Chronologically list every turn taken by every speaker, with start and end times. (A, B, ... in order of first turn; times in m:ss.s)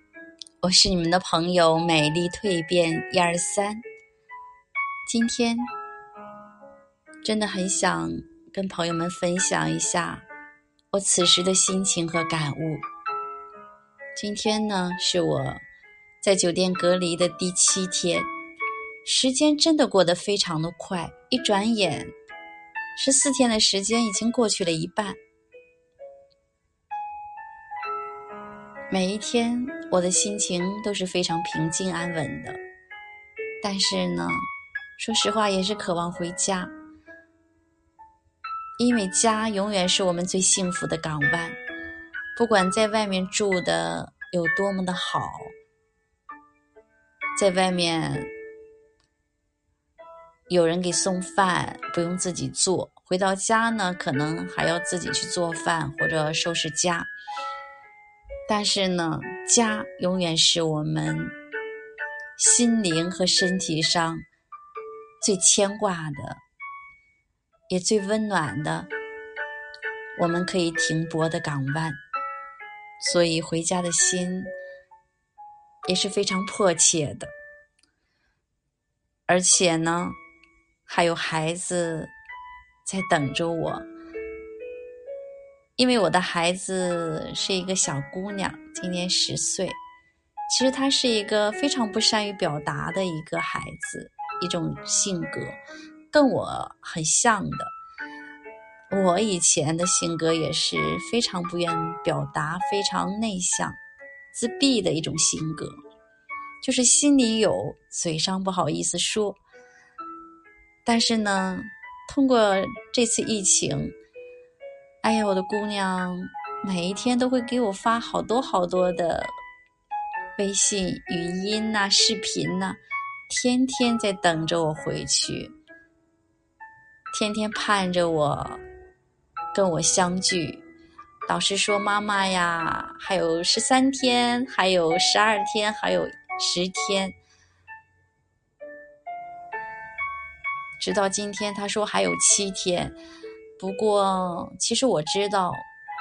0:00.6-0:03.8 A
0:05.0-0:05.7 A
0:07.2-0:10.2 A
0:10.9-0:12.8 A
0:14.2-0:15.6 A
0:16.2-0:18.3 A
0:19.0-0:22.1 A
0:23.0-0:25.2 A
0:28.9-0:32.6 A
0:33.6-0:36.7 A
0:38.8-0:41.6 A
0:42.4-0:45.5 A
0:47.3-0:48.3 A
0:50.5-0:57.1 A
0:58.5-1:01.3 A
1:02.4-1:04.2 A
1:05.2-1:06.4 A
1:07.7-1:08.9 A
1:10.1-1:12.0 A
1:13.0-1:14.5 A
1:15.8-1:17.3 A
1:19.3-1:20.2 A
1:20.9-1:22.1 A
1:22.8-1:23.9 A
1:25.8-1:29.8 A
1:30.5-1:35.6 A
1:36.1-1:37.7 A
1:38.9-1:43.8 A
1:44.3-1:45.8 A
1:46.6-1:49.4 A
1:50.8-1:53.9 A
1:55.0-1:59.3 A
2:00.4-2:05.5 A
2:07.1-2:08.6 A
2:09.5-2:10.6 A
2:11.3-2:17.2 A
2:20.8-2:22.9 A
2:23.6-2:25.6 A